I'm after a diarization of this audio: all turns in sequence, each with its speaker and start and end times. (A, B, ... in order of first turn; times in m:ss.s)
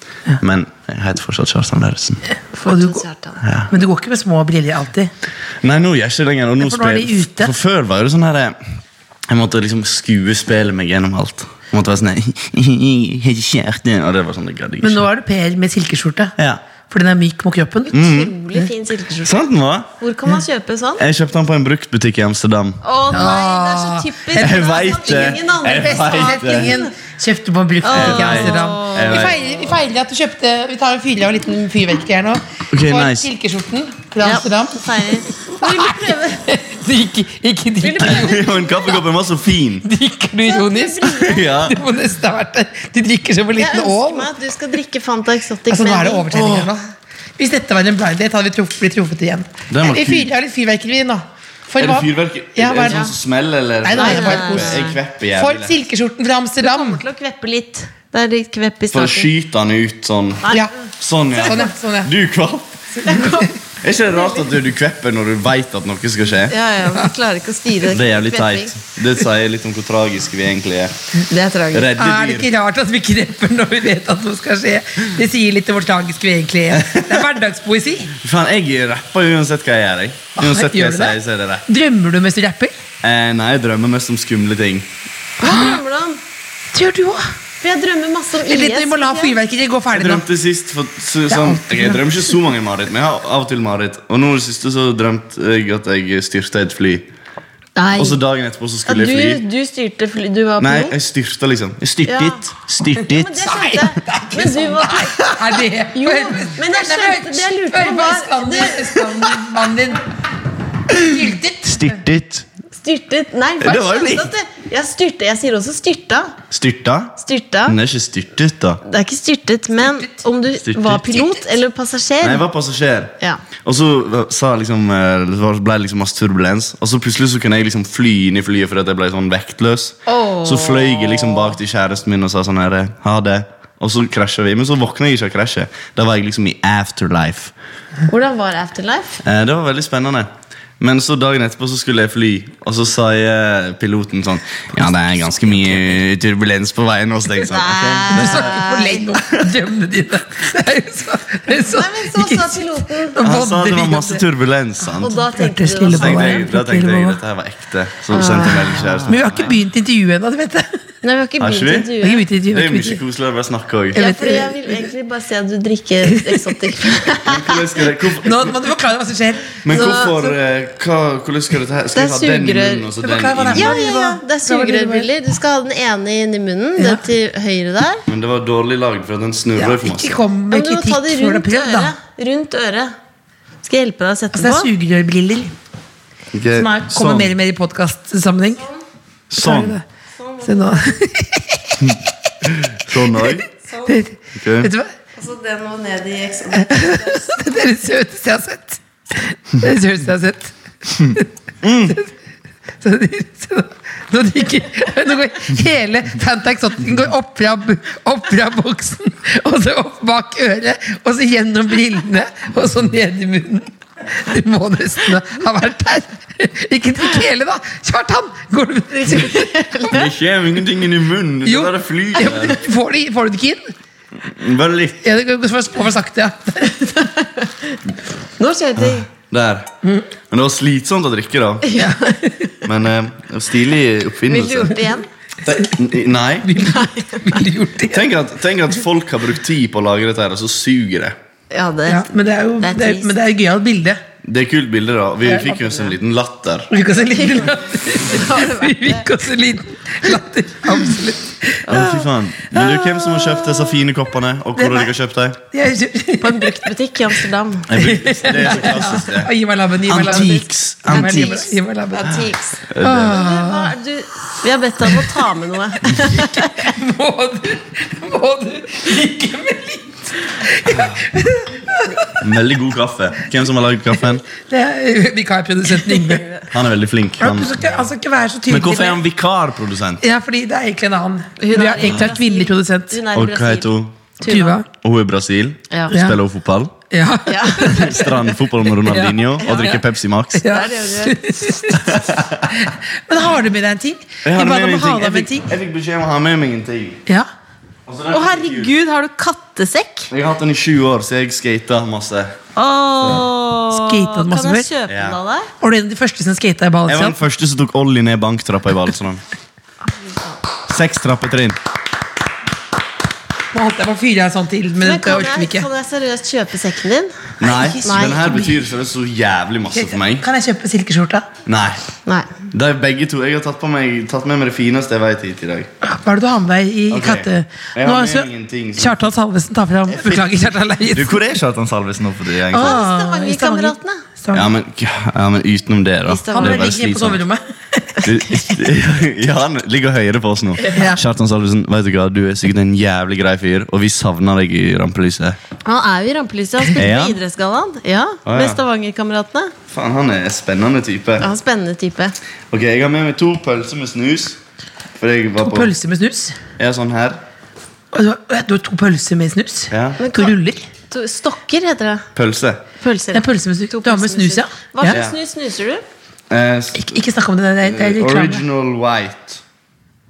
0:00.4-0:02.2 A
0:02.3-0:03.0 B
0:02.6-0:03.4 C
0:03.4-0:03.7 A
0:03.7-0:05.1 B
0:05.6-0:08.6 A
0:06.6-0:07.5 B
0:09.3-0:15.0 A
0:14.8-0:16.4 B
0:16.9-0:18.0 B
0:17.9-0:19.4 C
0:17.9-0:18.3 A
0:19.2-0:19.9 A
0:20.0-0:21.0 C
0:21.0-0:22.8 A
0:22.8-0:26.9 C
0:23.1-0:38.5 B
0:24.4-0:26.8 A
0:27.8-0:29.6 C
0:27.9-0:29.4 A
0:32.7-0:33.3 A
0:34.2-0:36.4 C
0:37.8-0:39.0 C
0:38.0-0:39.9 A
0:39.8-0:44.3 B
0:40.4-0:41.6 C
0:41.2-0:41.8 A
0:43.6-0:46.4 C
0:45.7-0:53.1 B
0:46.3-0:46.7 A
0:49.7-0:50.3 A
0:51.8-0:55.7 A
0:52.8-0:53.1 C
0:53.8-0:57.0 B
0:53.9-0:55.0 C
0:56.6-0:59.3 C
0:58.9-1:03.1 A
1:00.4-1:00.7 C
1:01.3-1:02.1 B
1:03.0-1:03.5 B
1:03.0-1:03.5 C
1:03.8-1:06.6 A
1:04.1-1:04.4 C
1:06.5-1:08.7 C
1:07.9-1:10.9 A
1:11.3-1:11.9 C
1:11.7-1:12.5 A
1:12.0-1:18.1 B
1:16.7-1:17.2 A
1:18.2-1:21.6 A
1:20.4-1:22.8 B
1:23.0-1:24.9 A
1:25.4-1:26.2 C
1:25.4-1:25.8 B
1:26.7-1:27.3 B
1:27.6-1:29.4 C
1:28.4-1:30.3 B
1:29.9-1:37.1 A
1:31.3-1:32.2 B
1:37.8-1:38.2 C
1:38.0-1:39.4 A
1:38.9-1:41.0 C
1:40.6-1:43.6 A
1:42.0-1:42.4 C
1:43.0-1:49.1 C
1:43.5-1:50.1 B
1:50.9-1:52.5 A
1:51.0-1:52.0 B
1:52.8-1:56.4 C
1:53.6-1:54.3 A
1:56.5-1:58.8 A
1:57.2-1:57.8 C
1:58.8-2:02.4 C
2:00.6-2:01.4 A
2:02.2-2:17.5 A
2:10.1-2:11.6 C
2:18.1-2:19.2 C
2:19.2-2:20.3 A
2:20.8-2:28.6 A
2:27.4-2:29.1 C
2:28.1-2:34.2 B
2:31.6-2:33.2 C
2:33.2-2:35.2 A
2:35.0-2:36.5 C
2:35.1-2:37.2 B
2:35.9-2:39.6 A
2:38.1-2:39.0 C
2:39.1-2:40.7 B
2:41.0-2:42.3 C
2:41.4-2:41.9 A
2:42.0-2:43.0 B
2:42.5-2:44.0 A
2:43.9-2:44.9 B
2:44.0-2:47.6 C
2:46.0-2:46.6 B
2:47.2-2:48.6 A
2:48.2-2:49.9 B
2:49.6-2:53.8 A
2:49.7-2:50.4 C
2:51.9-2:52.9 C
2:53.0-2:55.1 B
2:53.5-2:58.0 C
2:56.8-2:57.0 B
2:58.1-3:00.2 A
2:59.6-3:01.9 B
3:00.5-3:02.9 C
3:03.6-3:04.7 C
3:04.3-3:05.5 B
3:06.3-3:07.3 A
3:06.5-3:08.6 B
3:09.3-3:09.8 A
3:09.4-3:09.8 B
3:10.1-3:11.0 C
3:10.4-3:11.9 B
3:11.8-3:13.5 A
3:13.2-3:14.9 B
3:13.7-3:14.0 C
3:14.4-3:14.7 A
3:15.2-3:17.3 C
3:16.5-3:21.3 B
3:21.1-3:22.0 A
3:22.8-3:39.7 B
3:39.0-3:40.1 C
3:39.9-3:42.6 A
3:41.4-3:43.7 B
3:44.3-3:45.0 A
3:45.0-3:46.8 B
3:46.7-3:47.8 C
3:48.4-3:49.1 C
3:48.8-3:49.7 A
3:50.3-3:51.7 A
3:51.6-3:52.4 C
3:51.7-3:52.4 B
3:52.6-3:54.8 A
3:54.3-3:55.1 C
3:55.4-3:56.7 A
3:56.4-3:58.1 B
3:56.6-3:57.4 C
3:57.9-4:01.2 A
4:01.5-4:03.2 C
4:01.9-4:04.0 B
4:04.2-4:06.7 A
4:05.3-4:05.6 B
4:06.7-4:12.0 B
4:07.1-4:09.1 C
4:11.7-4:12.0 C
4:11.7-4:15.4 A
4:12.6-4:13.4 B
4:14.6-4:14.9 B
4:15.5-4:16.7 B
4:16.2-4:17.7 C
4:17.7-4:19.3 A
4:17.8-4:22.3 B
4:19.9-4:21.4 A
4:20.9-4:26.7 C
4:22.7-4:23.2 A
4:22.8-4:23.7 B
4:26.0-4:32.2 B
4:32.2-4:34.3 A
4:34.3-4:36.3 B
4:36.5-4:37.7 A
4:37.2-4:39.0 B
4:38.5-4:40.0 A
4:40.0-4:43.0 B
4:41.4-4:44.6 C
4:43.1-4:44.1 A
4:44.2-4:44.7 B
4:44.7-4:46.7 A
4:45.9-4:46.2 B
4:46.9-4:49.8 B
4:47.3-4:48.1 C
4:47.6-4:50.5 A
4:49.4-4:49.8 C
4:50.4-4:55.5 B
4:50.4-4:51.5 C
4:51.8-4:52.6 A
4:54.2-4:57.0 A
4:57.9-4:58.7 A
4:58.1-5:00.1 C
5:00.1-5:02.4 A
5:02.6-5:05.5 C
5:03.7-5:04.7 B
5:04.9-5:05.2 A
5:05.6-5:07.2 B
5:06.9-5:09.2 A
5:10.7-5:11.6 A
5:13.5-5:15.7 B
5:14.8-5:17.2 C
5:17.4-5:20.3 A
5:17.4-5:18.6 B
5:17.8-5:18.4 C
5:19.7-5:21.3 B
5:21.5-5:21.8 A
5:22.5-5:25.7 A
5:25.8-5:31.2 B
5:26.9-5:29.1 A
5:29.9-5:30.3 A
5:30.9-5:32.8 A
5:32.5-5:34.5 B
5:32.5-5:34.0 C
5:34.3-5:37.2 A
5:36.1-5:36.6 C
5:36.3-5:38.0 B
5:38.0-5:45.4 A
5:40.7-5:41.0 B
5:45.6-5:49.5 C
5:46.8-5:47.2 A
5:48.3-5:48.6 A
5:49.7-5:51.3 A
5:51.2-5:52.2 C
5:52.5-5:54.4 A
5:55.0-5:55.7 A
5:55.4-5:56.4 B
5:56.6-5:57.2 A
5:57.9-6:00.7 B
5:59.7-6:00.0 A
6:00.0-6:00.4 C
6:00.9-6:02.1 C
6:02.2-6:02.6 A
6:02.8-6:05.8 C
6:03.1-6:05.0 B
6:04.9-6:05.2 A
6:06.3-6:07.0 A
6:06.8-6:08.5 B
6:07.6-6:09.4 A